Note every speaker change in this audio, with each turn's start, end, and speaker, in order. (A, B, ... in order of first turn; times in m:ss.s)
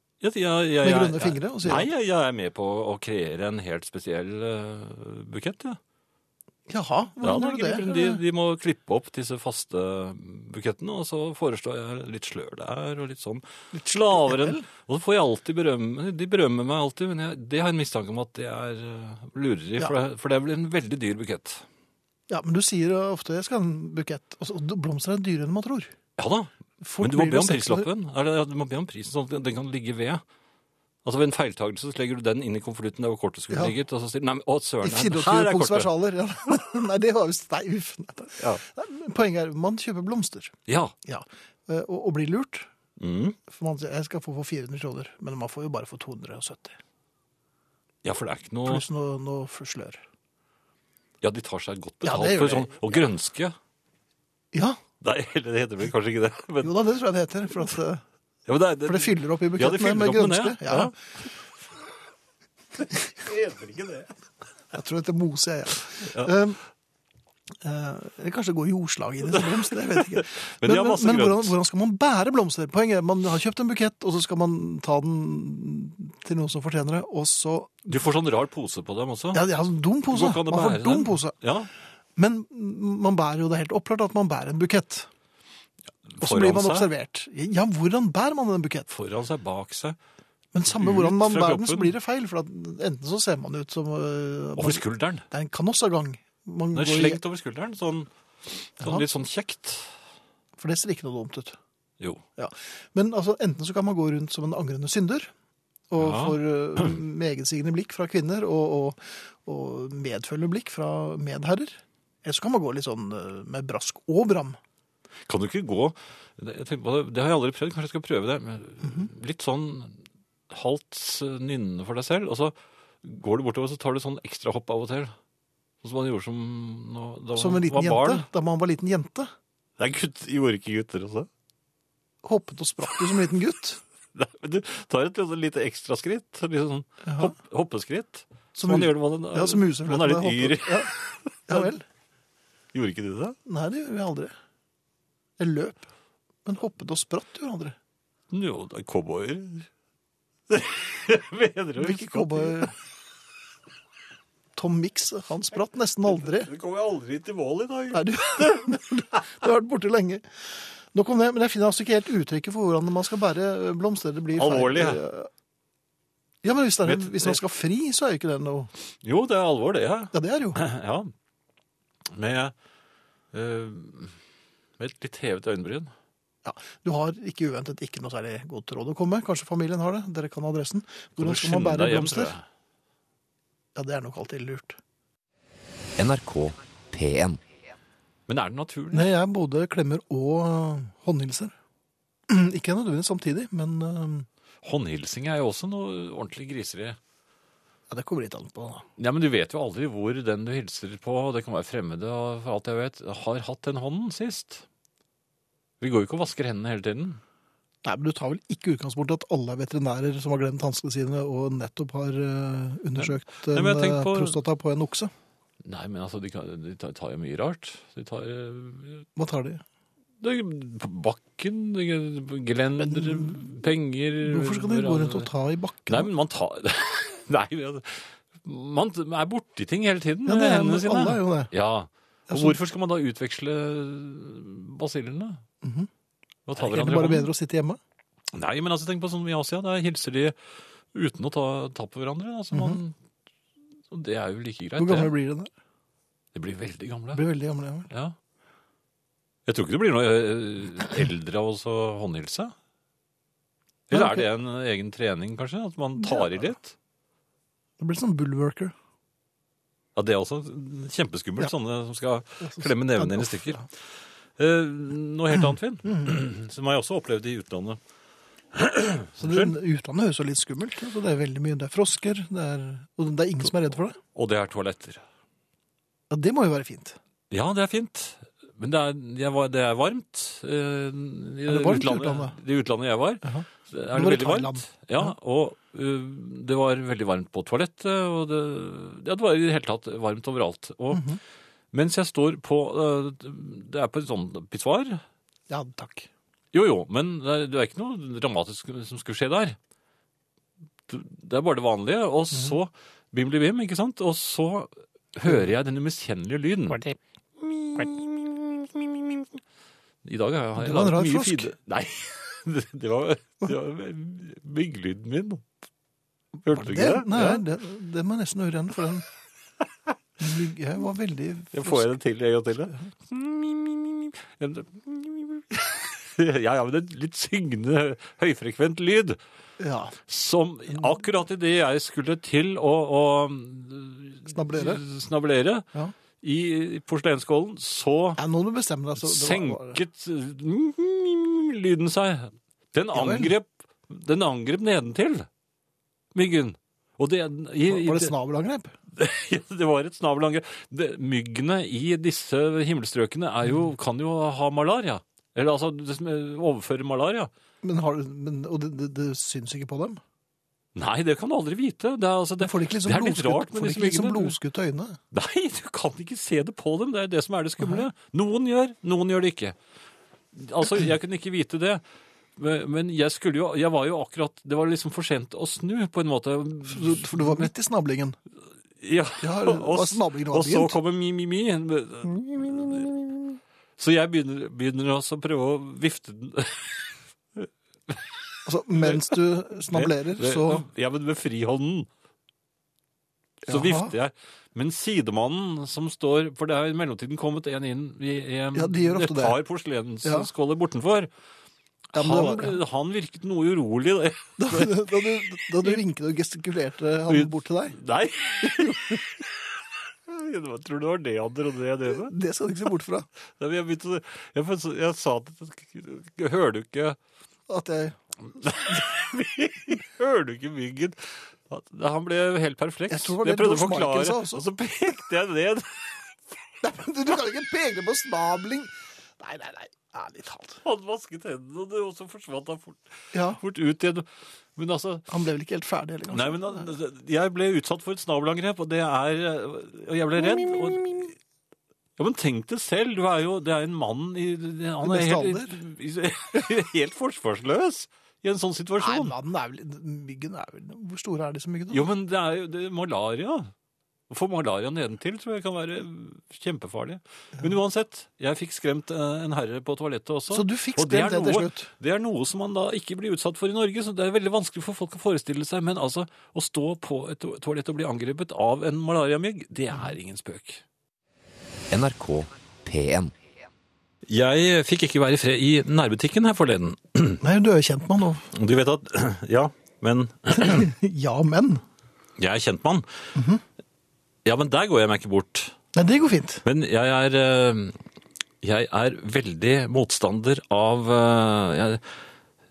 0:00.2-0:05.8 A
0:00.8-0:01.9 B
0:06.7-0:08.2 B
0:07.2-0:21.6 A
0:13.7-0:14.7 B
0:22.3-0:25.9 B
0:26.2-0:30.2 A
0:26.8-0:27.9 B
0:31.0-0:35.9 A
0:33.5-0:33.8 B
0:34.8-0:42.7 B
0:40.6-0:40.9 A
0:43.0-0:43.4 A
0:43.5-0:46.8 B
0:48.0-0:48.8 A
0:48.6-0:50.0 B
0:51.2-0:53.6 A
0:52.0-0:53.1 B
0:54.5-0:54.8 B
0:55.0-0:56.7 A
0:56.6-0:58.0 B
0:58.4-0:59.0 A
0:58.8-1:01.0 B
0:59.5-1:00.9 A
1:02.8-1:04.1 A
1:04.7-1:06.6 B
1:06.0-1:06.3 A
1:07.6-1:17.7 B
1:10.1-1:11.5 A
1:17.8-1:19.4 A
1:19.3-1:21.4 B
1:20.1-1:21.7 A
1:22.2-1:25.1 B
1:26.1-1:26.8 A
1:26.2-1:28.9 B
1:28.9-1:30.0 A
1:30.5-1:37.2 B
1:30.7-1:31.9 A
1:34.6-1:35.2 A
1:36.7-1:39.9 A
1:38.8-1:39.1 B
1:40.6-1:41.6 B
1:42.4-1:45.3 B
1:45.9-1:54.6 B
1:46.0-1:46.4 A
1:55.2-2:00.0 A
2:00.5-2:05.1 A
2:05.8-2:08.3 A
2:07.3-2:09.3 B
2:09.8-2:11.3 A
2:12.2-2:13.8 B
2:14.1-2:21.7 A
2:17.0-2:17.4 B
2:18.5-2:20.9 B
2:21.5-2:21.8 B
2:22.7-2:23.4 A
2:23.4-2:24.3 B
2:25.4-2:25.8 B
2:26.4-2:27.8 B
2:28.3-2:29.7 A
2:30.5-2:32.7 A
2:31.8-2:32.8 B
2:34.6-2:36.5 B
2:36.3-2:38.7 A
2:37.9-2:45.3 B
2:44.4-2:45.0 A
2:46.4-2:48.7 B
2:46.8-2:47.4 A
2:49.0-2:51.1 A
2:50.1-2:50.6 B
2:52.1-2:52.5 A
2:53.3-2:54.1 A
2:54.8-2:55.9 A
2:56.4-3:02.4 B
3:01.2-3:02.4 A
3:03.7-3:04.8 B
3:06.0-3:07.4 C
3:08.3-3:09.1 A
3:08.9-3:11.5 B
3:12.3-3:14.3 B
3:14.6-3:17.0 A
3:17.9-3:18.8 B
3:19.0-3:24.6 A
3:25.8-3:27.2 A
3:27.8-3:35.1 B
3:33.0-3:34.3 A
3:35.6-3:39.1 A
3:39.2-3:39.6 B
3:40.2-3:45.3 A
3:42.8-3:43.5 B
3:44.2-3:46.1 B
3:45.9-3:55.4 A
3:50.2-3:51.5 B
3:52.3-3:52.6 B
3:55.6-3:55.9 B
3:56.4-3:57.3 A
3:56.5-3:57.8 B
3:58.3-4:00.3 A
4:00.9-4:02.9 A
4:02.5-4:02.8 B
4:03.9-4:05.1 A
4:04.8-4:05.5 B
4:06.3-4:07.2 A
4:07.1-4:07.9 B
4:07.9-4:08.2 A
4:09.4-4:12.5 A
4:13.9-4:16.7 A
4:13.9-4:14.3 B
4:16.0-4:16.5 B
4:17.8-4:18.7 B
4:19.9-4:23.6 A
4:22.4-4:23.6 B
4:24.4-4:27.8 A
4:25.3-4:26.0 B
4:28.5-4:29.6 A
4:29.1-4:34.0 B
4:34.1-4:35.0 A
4:36.1-4:37.0 B
4:37.3-4:51.1 A
4:41.4-4:42.4 B
4:43.2-4:45.1 B
4:50.9-4:51.2 B
4:51.7-4:55.0 A
4:55.5-4:56.1 B
4:56.5-4:59.6 A
5:00.9-5:09.4 A
5:10.0-5:15.4 A
5:10.6-5:11.5 B
5:16.4-5:17.4 A
5:16.5-5:19.1 B
5:20.2-5:22.0 B
5:21.5-5:29.2 A
5:29.6-5:30.0 B
5:30.0-5:35.7 A
5:30.7-5:31.1 B
5:34.3-5:34.8 B
5:36.2-5:38.2 A
5:38.2-5:39.8 B
5:39.0-5:45.3 A
5:42.9-5:43.3 B
5:46.1-5:48.1 A
5:47.6-5:48.7 B
5:48.9-5:57.3 A
5:57.6-6:00.0 B
6:00.7-6:04.4 A
6:02.4-6:05.0 B
6:05.1-6:09.6 A
6:07.6-6:07.9 B
6:10.3-6:11.8 A
6:12.4-6:17.5 A
6:16.6-6:18.2 B
6:18.8-6:23.0 A
6:19.2-6:20.8 B
6:22.4-6:23.0 B
6:23.8-6:26.8 A
6:27.4-6:31.9 A
6:28.4-6:30.7 B
6:33.4-6:41.1 A
6:33.5-6:34.0 B
6:38.5-6:39.4 B
6:40.0-6:40.3 B
6:41.9-6:42.6 B
6:41.9-6:45.8 A
6:44.4-6:47.8 B
6:47.1-6:49.4 A
6:48.4-6:49.0 B
6:50.1-6:52.1 A
6:51.8-6:53.1 B
6:53.4-6:57.0 A
6:57.5-6:58.0 B
6:58.4-7:05.9 A
7:02.9-7:04.4 B
7:06.6-7:10.6 B
7:10.6-7:12.8 A
7:13.1-7:13.4 B
7:13.4-7:15.1 A
7:15.1-7:16.8 B
7:16.1-7:21.2 A
7:20.2-7:20.8 B
7:22.0-7:29.1 A
7:24.8-7:25.6 B
7:28.8-7:31.9 B
7:31.7-7:33.5 A
7:34.1-7:50.6 A
7:40.3-7:41.7 B
7:51.7-7:53.1 C
7:54.0-7:57.2 A
7:57.2-7:58.3 B
7:58.3-8:00.7 A
8:00.3-8:01.6 B
8:02.2-8:02.9 A
8:03.1-8:03.4 B
8:04.2-8:05.5 A
8:05.7-8:06.4 B
8:06.4-8:07.8 A
8:08.4-8:11.8 A